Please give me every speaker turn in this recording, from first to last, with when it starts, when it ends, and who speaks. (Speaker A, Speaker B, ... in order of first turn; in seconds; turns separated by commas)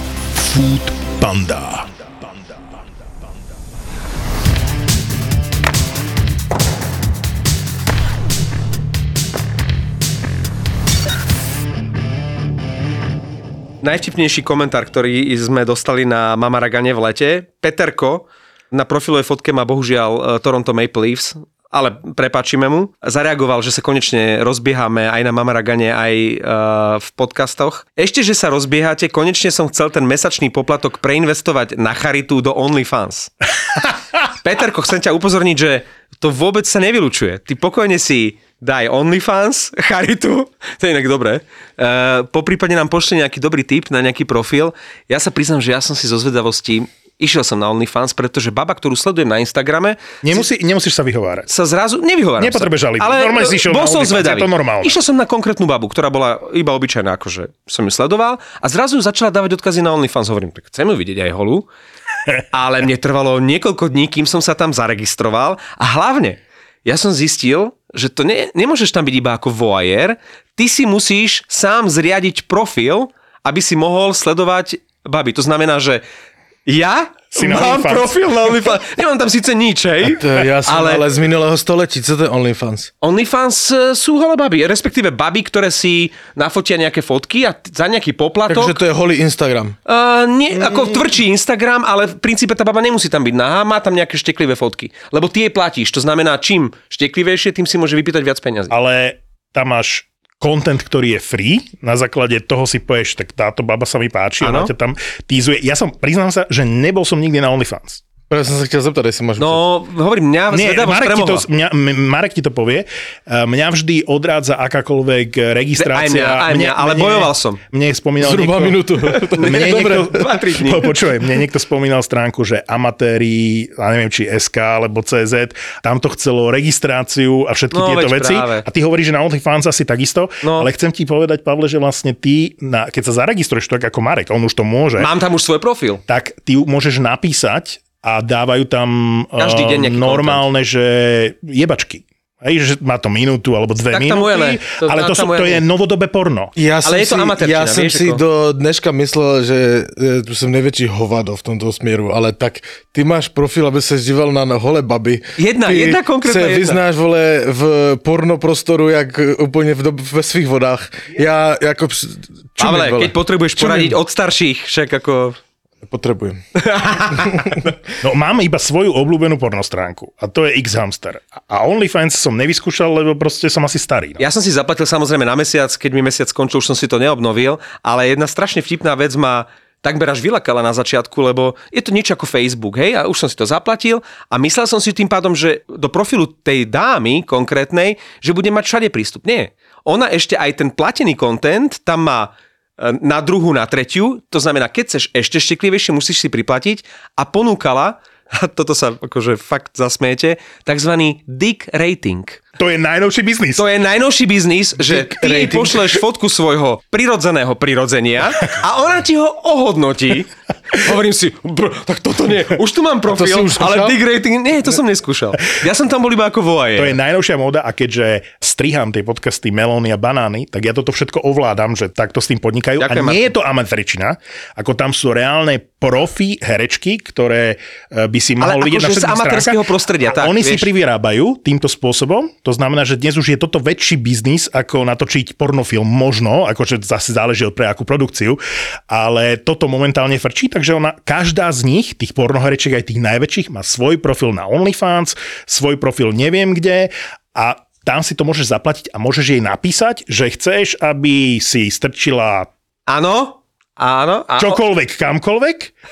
Speaker A: 0.3-2.0, Speaker B: 13.8-33.3, Speaker B: 34.4-50.4, Speaker A: 50.2-51.5, Speaker B: 51.5-61.7, Speaker A: 52.4-55.0, Speaker B: 62.5-76.0, Speaker B: 76.7-81.1, Speaker A: 77.3-78.1, Speaker C: 80.1-82.9, Speaker B: 83.0-88.8, Speaker C: 88.5-89.8, Speaker B: 89.9-98.7, Speaker A: 98.7-108.0, Speaker B: 104.4-104.7, Speaker C: 108.3-109.6, Speaker B: 109.4-111.5, Speaker A: 110.5-118.9, Speaker B: 115.8-117.6, Speaker C: 118.2-120.2, Speaker B: 119.1-121.0, Speaker A: 119.4-135.1, Speaker B: 127.7-128.7, Speaker B: 130.4-130.7, Speaker B: 135.0-136.0, Speaker A: 136.1-146.5, Speaker B: 139.4-140.4, Speaker B: 143.9-145.6, Speaker C: 146.6-164.0, Speaker B: 146.8-148.2, Speaker B: 155.4-156.8, Speaker B: 162.6-165.4, Speaker C: 165.8-166.4, Speaker B: 166.6-167.5, Speaker C: 167.1-167.7, Speaker A: 168.0-174.2, Speaker B: 174.2-202.4, Speaker A: 202.6-203.7, Speaker B: 203.6-216.9, Speaker C: 204.8-206.0, Speaker C: 213.1-214.0, Speaker A: 216.8-252.5, Speaker B: 222.8-223.2, Speaker B: 228.4-230.7, Speaker B: 252.9-254.6, Speaker A: 254.4-255.7